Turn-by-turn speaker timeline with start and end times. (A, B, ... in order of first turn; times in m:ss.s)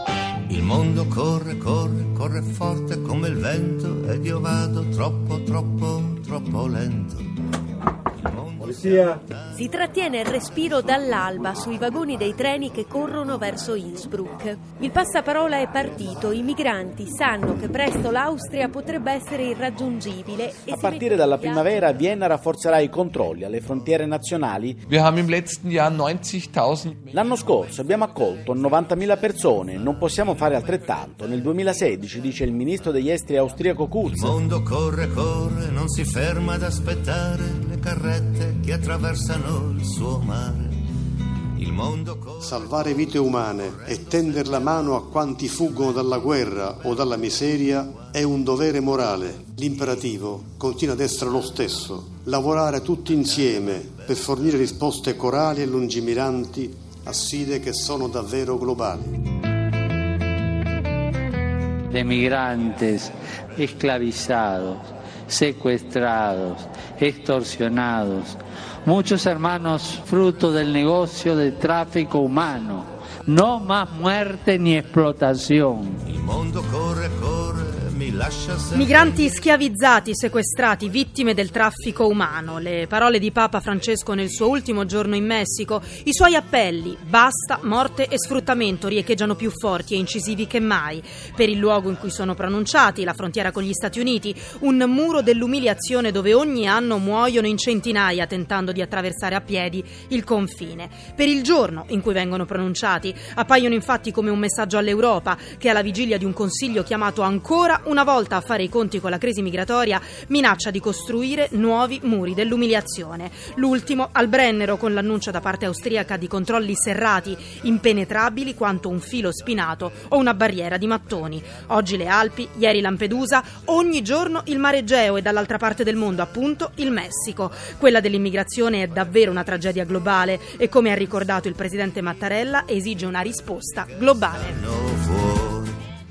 0:00.5-0:07.4 A
0:08.2-0:09.5 A
0:09.6-0:21.8 B
0:20.7-0:24.8 C
0:24.9-0:27.0 D
0:27.1-0:34.4 C
0:34.0-0:40.8 A
0:41.6-0:45.0 A
0:42.4-0:59.1 E
0:45.7-0:46.0 A
0:47.7-0:48.1 A
0:53.0-0:54.5 A
1:01.9-1:16.0 F
1:16.1-1:19.2 A
1:18.7-2:14.6 G
2:14.4-2:15.8 A